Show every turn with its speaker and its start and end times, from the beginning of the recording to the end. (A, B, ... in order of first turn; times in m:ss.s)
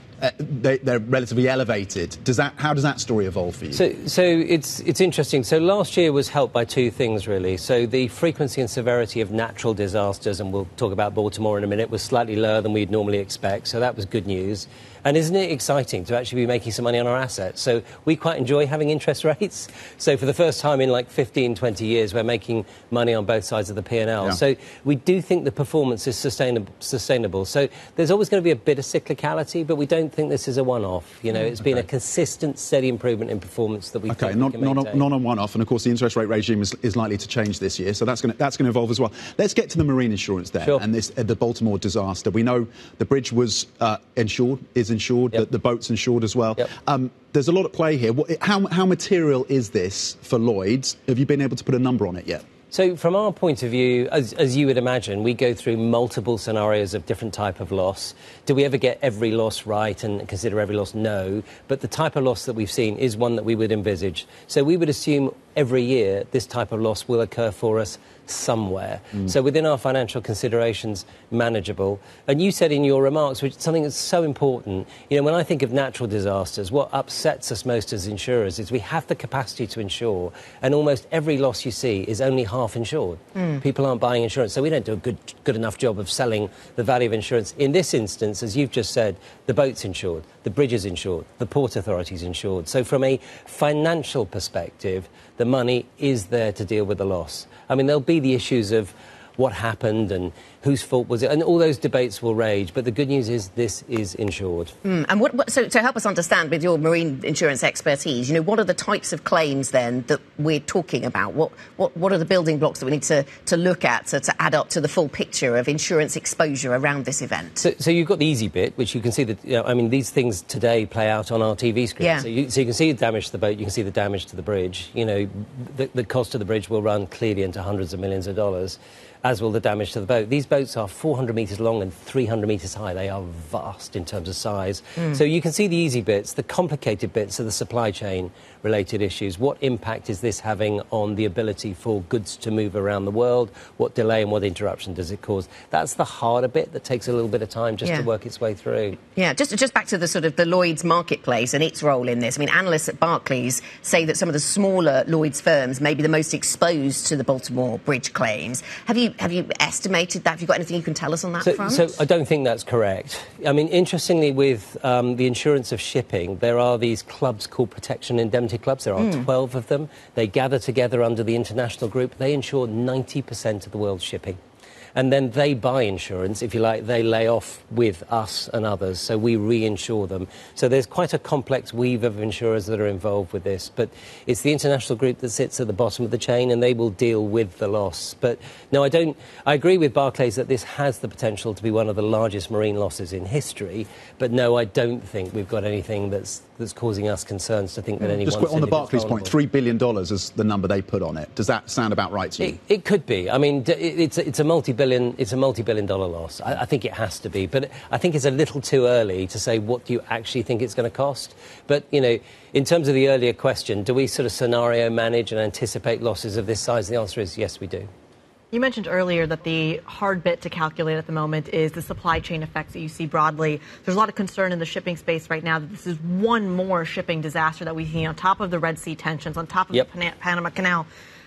0:00.2-0:03.8 A
0:03.7-0:35.1 B
0:34.1-0:52.4 A
0:52.7-1:44.8 B
1:44.8-1:57.6 C
1:57.6-2:29.0 B
2:02.0-2:02.3 C
2:29.1-2:42.0 C
2:41.4-2:54.4 B
2:49.0-2:49.2 C
2:55.0-3:19.3 B
3:18.2-3:22.6 A
3:22.4-3:37.9 B
3:38.5-3:50.9 D